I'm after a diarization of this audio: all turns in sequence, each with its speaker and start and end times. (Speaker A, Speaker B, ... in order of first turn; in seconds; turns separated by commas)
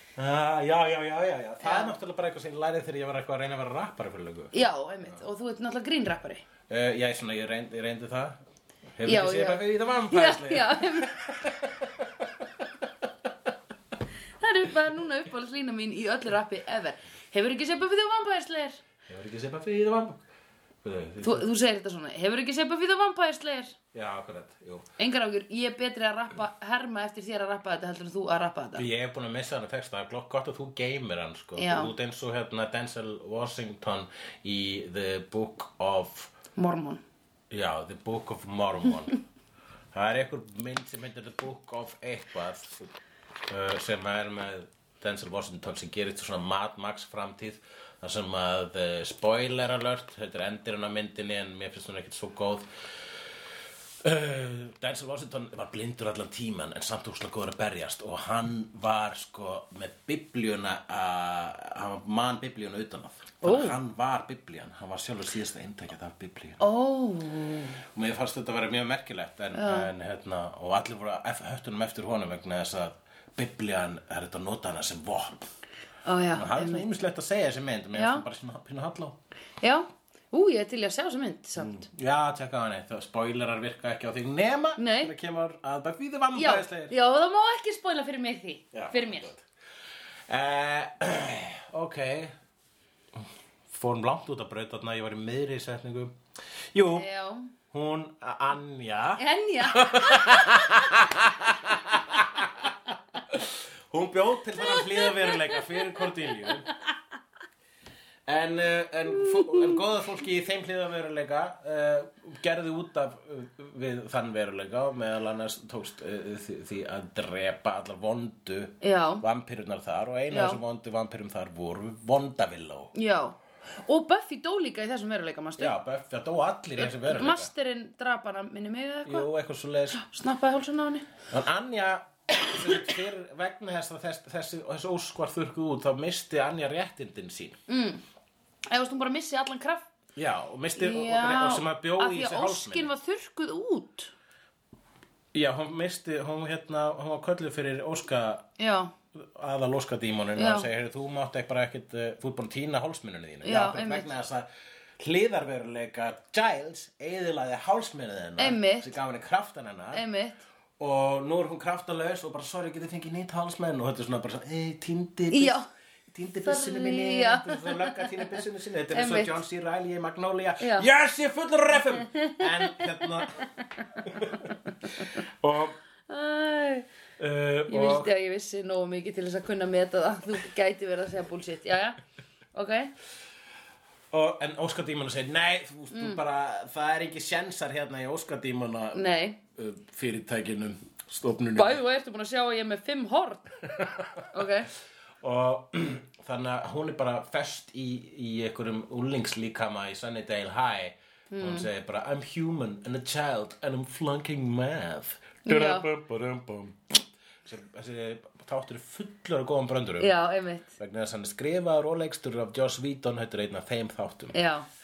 Speaker A: 0.1-4.5, Speaker B: 1.6-1.9, Speaker B: 4.5-6.4, Speaker A: 6.7-8.4, Speaker A: 9.0-12.9, Speaker B: 9.0-11.2, Speaker B: 14.4-18.8, Speaker A: 19.1-20.2, Speaker A: 20.8-21.5, Speaker B: 21.2-23.8, Speaker A: 23.9-24.9, Speaker B: 25.0-28.9, Speaker A: 28.7-36.3, Speaker B: 31.6-31.9, Speaker B: 36.6-37.0, Speaker A: 37.5-39.2, Speaker A: 39.9-42.9, Speaker A: 43.5-52.7, Speaker A: 54.0-66.6, Speaker B: 63.4-63.8, Speaker B: 66.6-67.8, Speaker A: 67.9-75.5, Speaker B: 69.5-69.9, Speaker B: 76.0-76.8, Speaker A: 76.3-79.2, Speaker B: 77.9-78.2, Speaker B: 79.6-81.9, Speaker A: 81.6-86.9, Speaker B: 84.8-85.1, Speaker B: 86.3-89.3, Speaker A: 88.7-89.5, Speaker A: 90.3-92.3, Speaker A: 93.2-96.2, Speaker A: 96.7-97.0, Speaker B: 96.9-97.5, Speaker A: 97.7-106.7, Speaker B: 99.2-101.0, Speaker B: 104.6-105.6, Speaker A: 108.2-122.9, Speaker B: 109.3-109.7, Speaker B: 118.8-119.2, Speaker B: 120.3-120.6, Speaker B: 122.9-125.8, Speaker A: 125.6-127.5, Speaker B: 126.8-129.3, Speaker A: 129.0-130.0, Speaker B: 129.9-131.1, Speaker A: 131.3-137.6, Speaker B: 137.7-138.0, Speaker B: 138.7-139.9, Speaker A: 140.2-142.9, Speaker B: 140.8-144.1, Speaker A: 145.3-148.5, Speaker B: 148.6-148.9, Speaker A: 149.1-154.5, Speaker B: 150.3-150.7, Speaker B: 153.4-154.1, Speaker A: 155.0-160.0, Speaker B: 158.4-158.9, Speaker B: 159.9-160.4, Speaker A: 160.8-165.6, Speaker B: 165.3-165.7, Speaker A: 166.1-173.4, Speaker B: 166.4-168.2, Speaker B: 168.9-169.3, Speaker B: 170.6-170.9, Speaker B: 172.1-175.1, Speaker A: 174.0-175.8, Speaker B: 176.1-176.9, Speaker A: 177.2-178.1, Speaker B: 177.7-182.0, Speaker B: 182.5-182.9, Speaker A: 184.1-191.8, Speaker B: 185.9-186.2, Speaker B: 188.9-189.4, Speaker B: 191.6-193.6, Speaker A: 193.7-194.4, Speaker B: 194.3-194.7, Speaker A: 195.2-210.1, Speaker B: 201.3-201.7, Speaker B: 205.4-205.8, Speaker B: 210.0-210.7, Speaker A: 210.8-214.3, Speaker B: 214.3-214.7